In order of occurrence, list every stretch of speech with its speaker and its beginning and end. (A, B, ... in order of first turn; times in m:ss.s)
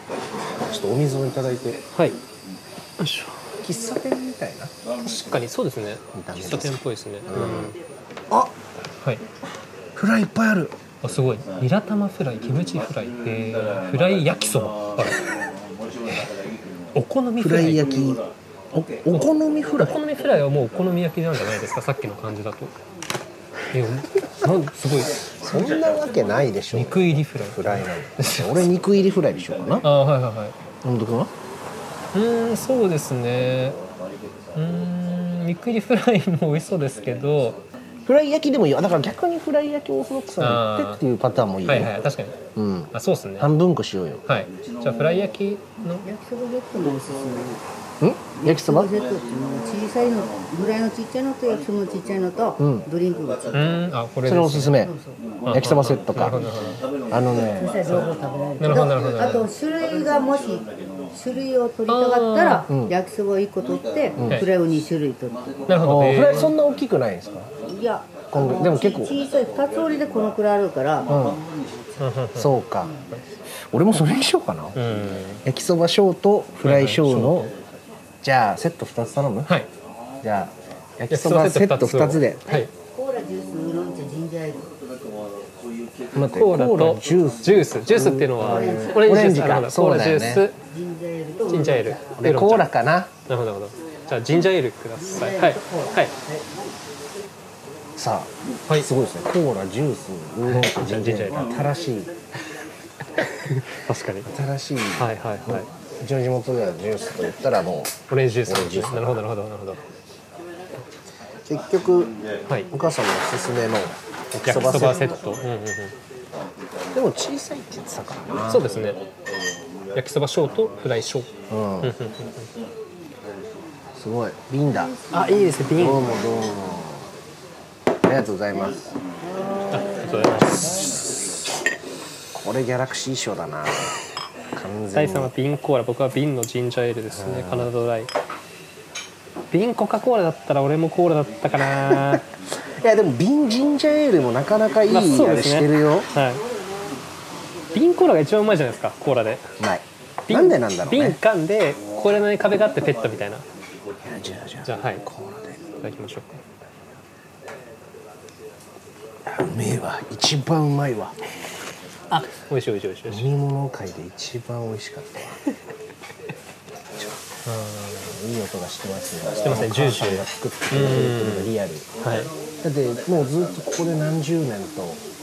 0:00.7-0:01.8 A
0:03.0-0:03.4 B
0:03.6-0:05.4 A
0:05.0-0:07.8 B
0:06.1-0:07.8 A
0:10.0-0:10.7 A
0:11.0-0:15.4 B
0:17.0-0:17.9 B
0:17.4-0:20.0 A
0:19.8-0:22.7 B
0:23.7-0:25.1 B
0:25.4-0:29.8 A
0:26.7-0:28.7 B
0:29.8-0:30.6 B
0:30.8-0:31.3 A
0:32.1-0:33.8 B
0:34.6-0:37.6 B
0:38.1-0:41.9 A
0:40.4-0:41.0 B
0:41.7-0:42.4 B
0:42.6-0:44.2 A
0:42.9-0:43.5 B
0:44.3-0:46.1 B
0:46.0-0:47.6 C
0:48.0-0:48.9 A
0:48.4-0:53.8 C
0:52.6-0:52.9 A
0:53.5-0:54.8 B
0:54.3-0:54.9 A
0:54.8-0:55.2 C
0:55.5-0:56.8 B
0:55.5-0:56.4 A
0:57.1-0:57.8 A
0:57.6-1:05.5 C
0:58.6-0:59.4 B
0:58.7-0:59.4 A
1:01.9-1:02.7 B
1:02.7-1:03.0 A
1:04.2-1:04.4 A
1:05.7-1:06.5 B
1:05.8-1:07.5 A
1:07.6-1:11.1 C
1:08.3-1:09.1 A
1:11.1-1:11.4 A
1:12.0-1:12.6 B
1:12.4-1:12.9 A
1:13.7-1:17.5 A
1:14.8-1:15.4 B
1:16.6-1:17.5 B
1:18.2-1:19.6 A
1:20.2-1:22.4 A
1:21.1-1:22.7 B
1:22.5-1:24.7 C
1:26.1-1:30.5 A
1:26.3-1:30.6 B
1:28.4-1:29.0 C
1:30.6-1:32.1 C
1:31.5-1:32.7 B
1:32.2-1:33.1 A
1:33.3-1:36.1 B
1:35.0-1:36.0 C
1:38.0-1:42.1 A
1:40.5-1:41.6 B
1:43.2-1:44.3 B
1:44.2-1:48.0 A
1:45.0-1:45.7 B
1:48.1-1:49.8 B
1:48.5-1:49.2 A
1:51.5-1:52.2 A
1:52.7-1:55.2 A
1:54.5-1:56.0 B
1:56.9-1:58.9 A
1:58.5-1:59.0 B
1:59.9-2:01.3 B
2:01.5-2:01.9 A
2:01.8-2:02.4 B
2:04.0-2:04.9 A
2:05.1-2:06.2 B
2:05.8-2:07.1 A
2:08.0-2:08.9 A
2:09.7-2:10.9 B
2:10.3-2:11.3 A
2:12.3-2:14.0 A
2:14.5-2:15.3 A
2:14.9-2:18.1 B
2:17.1-2:17.7 A
2:19.5-2:22.2 B
2:21.8-2:22.2 A
2:22.8-2:26.1 A
2:24.9-2:26.4 B
2:27.7-2:29.5 B
2:29.6-2:31.2 A
2:30.3-2:33.4 B
2:34.0-2:35.6 A
2:34.7-2:35.0 B
2:35.8-2:36.4 B
2:39.2-2:41.2 A
2:42.1-2:43.3 B
2:43.1-2:45.4 A
2:47.5-2:48.1 B
2:48.0-2:51.9 A
2:49.4-2:52.3 B
2:52.6-2:55.0 A